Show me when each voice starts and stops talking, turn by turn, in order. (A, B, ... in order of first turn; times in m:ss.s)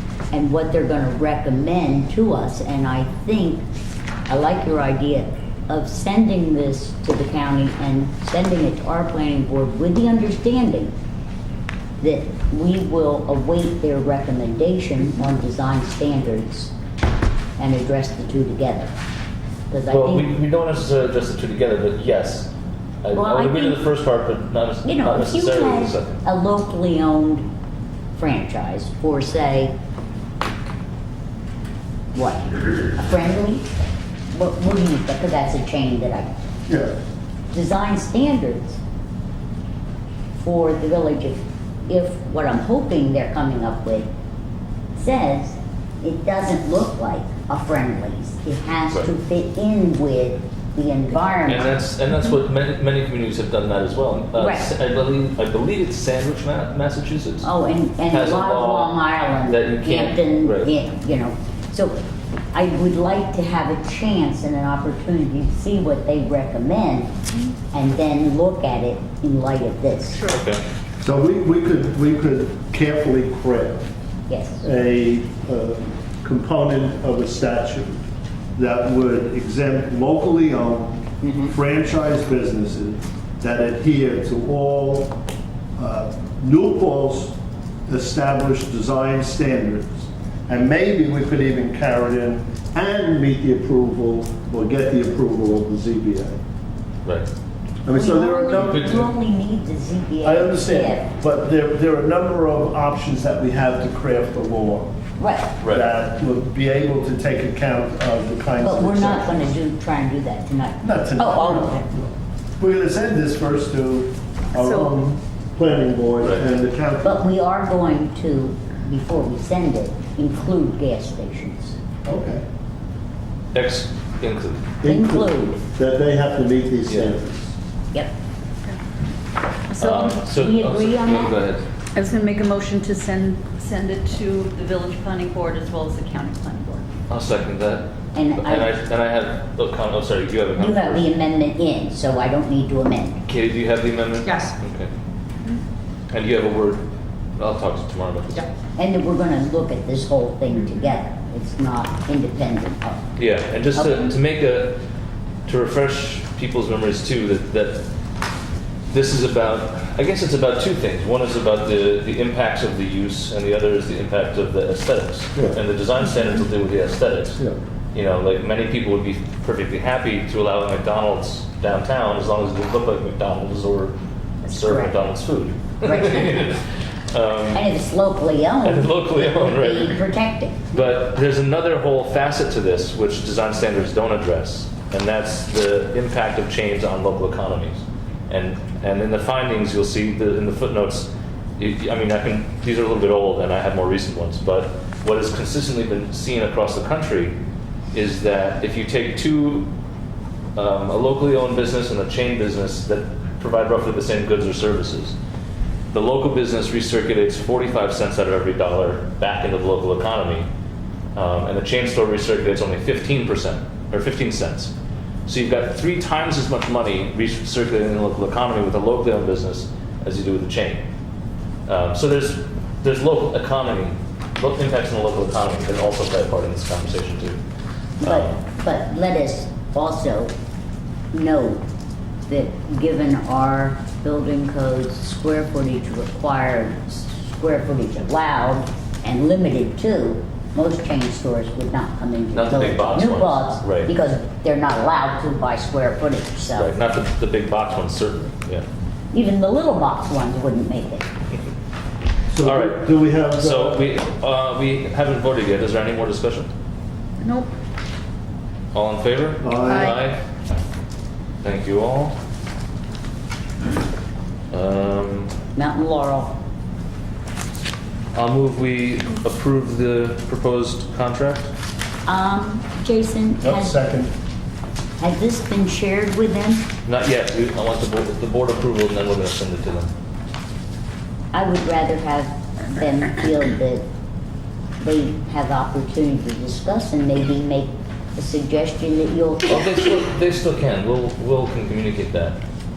0:00.3-0:03.6 A
0:04.3-0:10.9 A
0:12.0-0:16.7 A
0:17.6-0:18.9 A
0:19.7-0:20.3 A
0:19.9-0:22.5 B
0:23.0-0:26.2 B
0:23.1-0:23.9 A
0:24.8-0:27.5 A
0:28.1-0:29.7 A
0:32.1-0:33.6 A
0:34.3-0:36.3 A
0:36.7-0:36.9 C
0:37.5-0:38.8 A
0:40.4-0:44.1 A
0:44.9-0:51.7 A
0:51.4-0:57.5 B
0:54.4-0:54.7 A
0:57.4-1:02.0 A
0:58.1-1:00.7 B
1:02.5-1:07.1 A
1:07.7-1:10.3 A
1:10.3-1:10.6 B
1:11.0-1:13.8 C
1:14.3-1:14.6 A
1:14.6-1:18.0 C
1:18.6-1:25.2 C
1:21.2-1:21.5 A
1:25.8-1:27.3 C
1:27.9-1:36.4 C
1:37.8-1:39.1 C
1:37.9-1:41.1 A
1:38.6-1:39.0 B
1:40.2-1:44.9 C
1:45.2-1:45.5 A
1:45.6-1:45.8 B
1:45.6-1:49.5 C
1:48.6-1:51.8 A
1:50.8-1:57.2 C
1:54.6-1:54.9 D
1:57.0-2:01.8 A
2:02.0-2:02.4 C
2:03.5-2:04.7 B
2:04.8-2:07.5 C
2:04.8-2:05.6 A
2:06.9-2:07.2 B
2:09.7-2:10.2 D
2:09.8-2:11.6 B
2:09.8-2:11.4 A
2:11.9-2:16.8 D
2:17.1-2:21.1 B
2:18.1-2:18.7 A
2:20.6-2:23.2 A
2:23.2-2:24.9 B
2:24.3-2:24.5 D
2:26.1-2:26.8 B
2:27.4-2:28.4 B
2:28.8-2:33.0 A
2:33.2-2:34.8 B
2:33.7-2:34.2 A
2:35.4-2:37.8 B
2:38.9-2:47.4 B
2:47.9-2:56.6 B
2:54.5-2:54.9 A
2:55.8-2:56.4 A
2:57.1-2:57.7 B
2:57.5-3:00.6 A
2:58.6-3:00.0 B
3:00.7-3:17.3 B
3:17.9-3:19.7 B
3:20.6-3:25.2 B
3:25.9-3:30.5 B
3:31.1-3:34.7 B
3:35.2-3:40.8 B
3:41.7-3:47.4 B
3:48.0-3:50.3 A
3:48.0-3:48.4 B
3:51.1-3:51.6 A
3:52.3-4:06.7 A
4:02.3-4:03.9 B
4:06.6-4:08.6 B
4:09.1-4:11.0 A
4:12.3-4:13.8 C
4:12.4-4:16.5 B
4:17.2-4:17.5 D
4:18.7-4:20.2 B
4:19.4-4:20.0 C
4:19.7-4:20.0 D
4:21.4-4:22.2 B
4:24.5-4:25.3 B
4:25.6-4:26.4 A
4:28.1-4:31.5 B
4:32.0-4:33.8 A
4:33.4-4:34.1 C
4:35.0-4:36.7 A
4:36.8-4:39.9 B
4:41.3-4:43.8 A
4:44.8-4:49.9 A
4:49.4-4:52.4 B